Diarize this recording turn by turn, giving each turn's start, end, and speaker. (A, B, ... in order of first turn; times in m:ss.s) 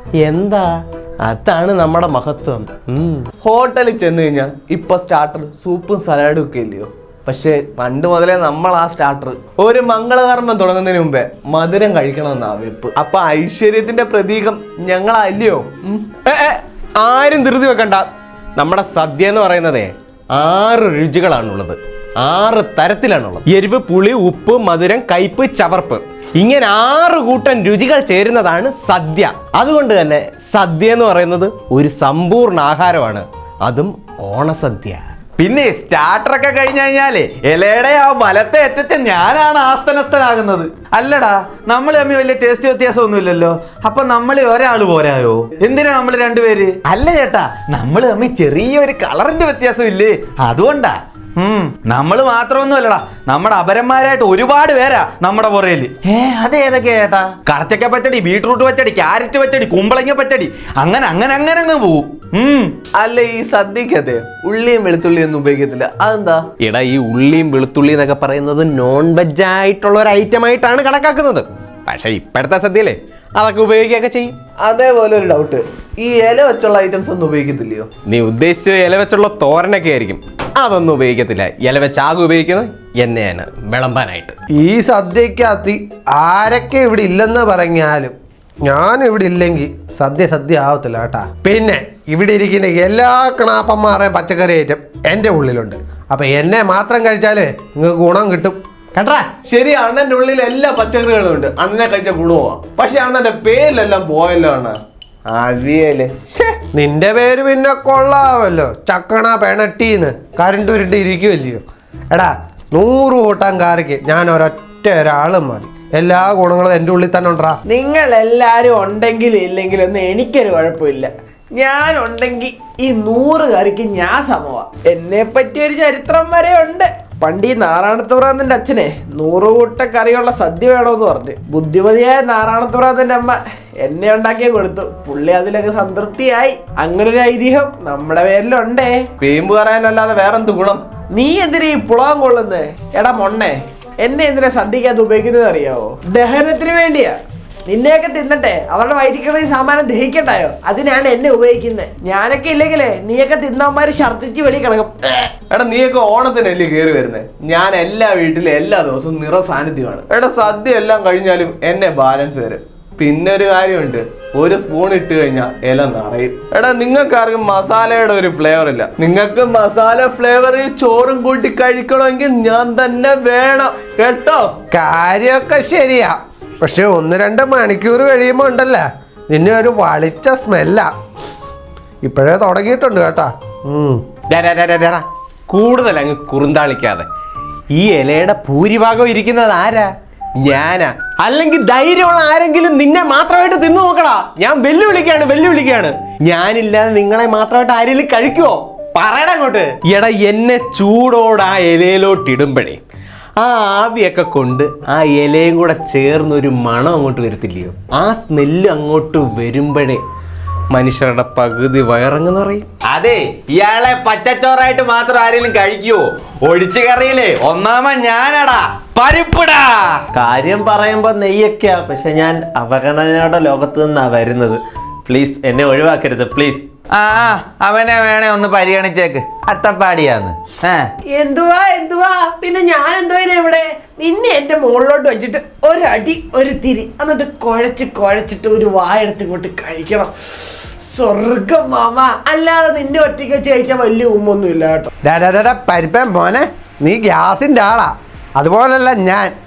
0:00.2-0:03.3 A
0:03.4-0:16.1 B
0:16.2-0:35.0 A
0:35.4-1:02.7 C
1:02.9-1:06.4 B
1:06.6-1:14.3 A
1:14.6-1:17.9 B
1:18.1-1:24.4 A
1:24.5-1:39.3 D
1:39.4-1:46.6 B
1:46.7-1:57.6 D
1:57.6-2:19.1 E
2:19.2-2:20.8 B
2:21.1-2:35.3 E
2:35.5-2:54.5 B
2:54.7-3:00.9 D
3:02.0-3:04.0 D
3:04.3-3:07.0 A
3:07.7-3:22.8 A
3:23.4-3:30.0 A
3:30.7-3:32.7 A
3:32.9-3:40.0 C
3:40.1-3:46.6 F
3:46.9-3:50.9 C
3:51.1-4:04.9 E
4:05.0-4:09.3 D